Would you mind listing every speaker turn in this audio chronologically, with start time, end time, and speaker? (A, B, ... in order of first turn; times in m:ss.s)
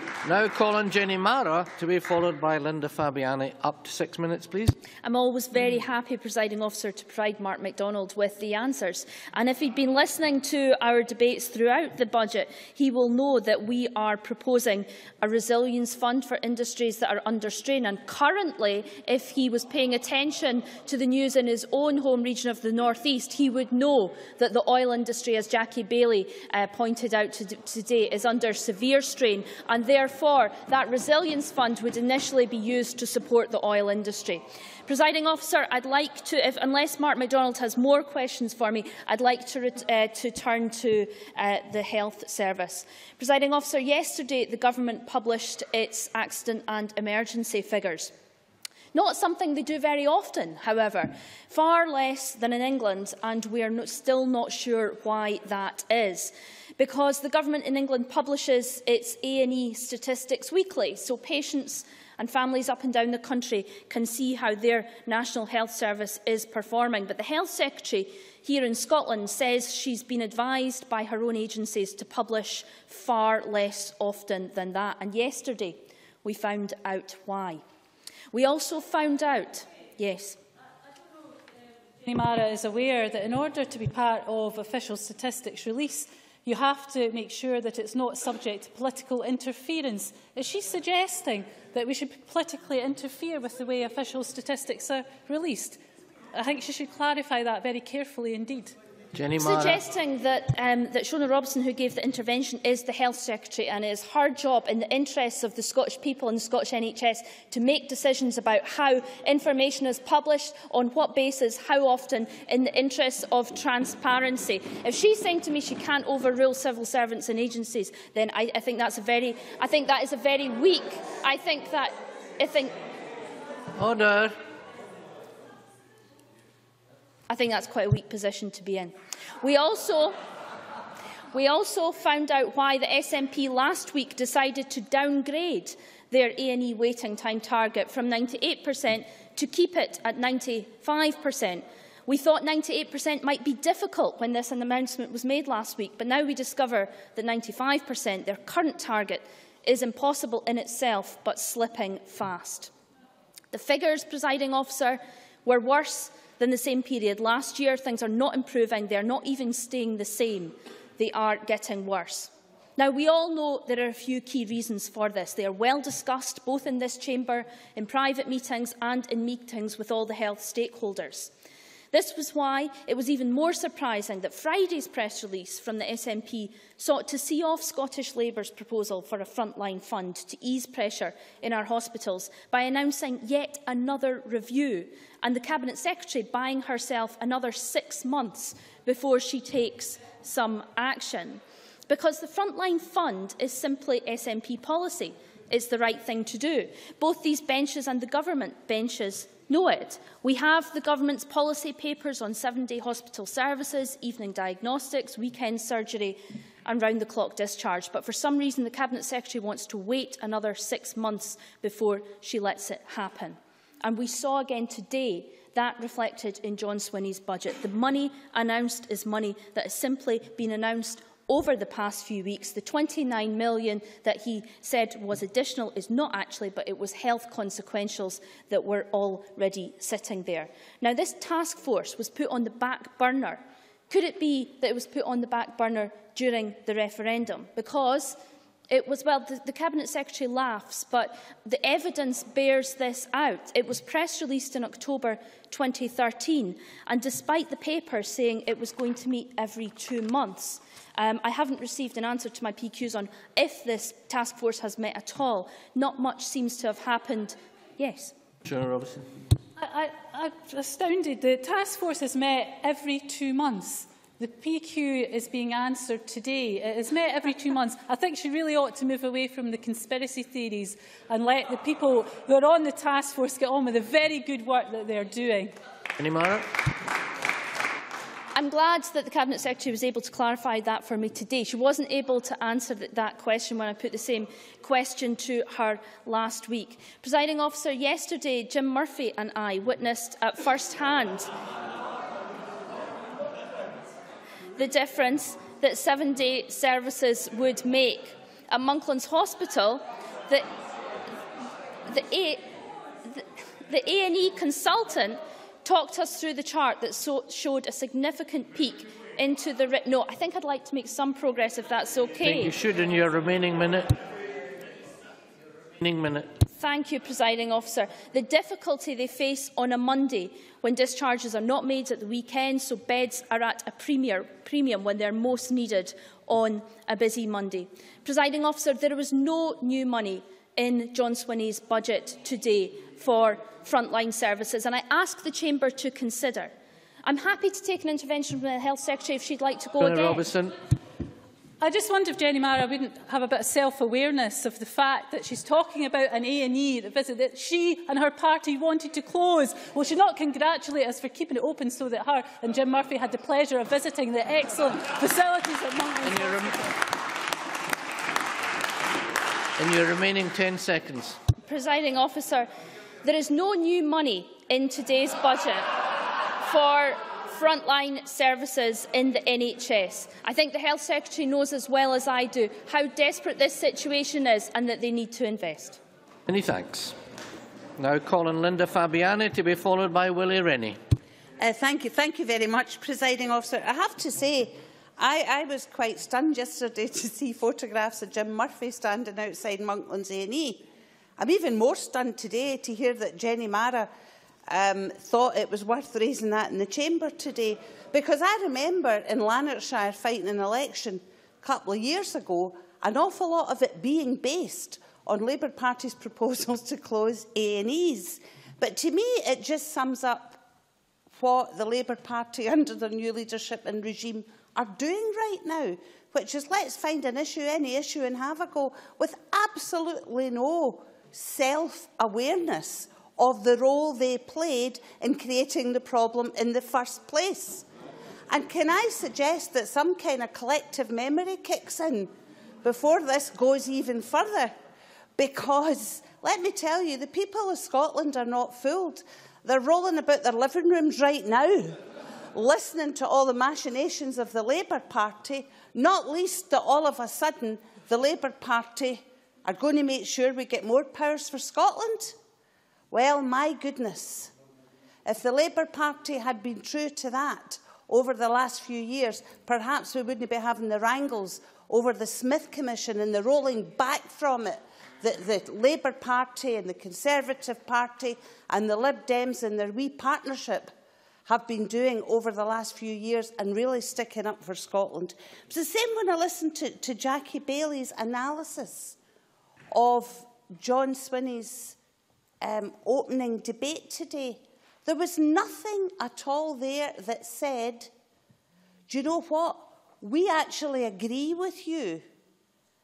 0:00.2-0:04.8 A
0:05.0-0:48.1 B
0:48.9-1:17.6 B
1:18.3-1:20.4 B
1:22.0-1:35.8 C
1:36.3-1:38.8 C
1:39.1-1:39.8 A
1:39.4-2:02.7 B
2:03.8-2:04.3 A
2:07.3-2:10.2 B
2:11.3-2:32.7 B
2:33.5-2:51.3 B
2:51.9-4:18.1 B
4:18.4-4:19.1 A
4:19.6-4:35.5 C
4:36.0-4:36.5 A
4:38.3-4:51.3 B
4:54.6-5:00.5 B
5:01.9-5:02.5 B
5:03.1-5:12.6 B
5:12.2-5:14.0 A
5:15.8-5:16.3 A
5:16.6-5:36.5 B
5:37.0-5:40.3 B
5:39.8-5:40.6 A
5:41.6-5:56.6 C
5:56.0-5:56.6 A
5:59.6-6:01.2 A
6:01.5-6:02.5 B
6:03.0-6:05.8 B
6:06.4-6:15.8 B
6:16.3-6:17.0 A
6:17.8-6:20.8 A
6:21.4-6:30.6 D
6:31.2-6:33.9 D
6:34.5-6:50.4 D
6:51.1-7:07.6 D
7:08.3-7:12.1 D
7:12.6-7:14.5 D
7:15.2-7:21.8 D
7:22.3-7:32.2 D
7:32.9-7:34.3 D
7:35.0-7:50.7 D
7:51.3-7:59.0 D
7:59.7-8:01.8 D
8:02.4-8:07.9 D
8:08.9-8:12.0 D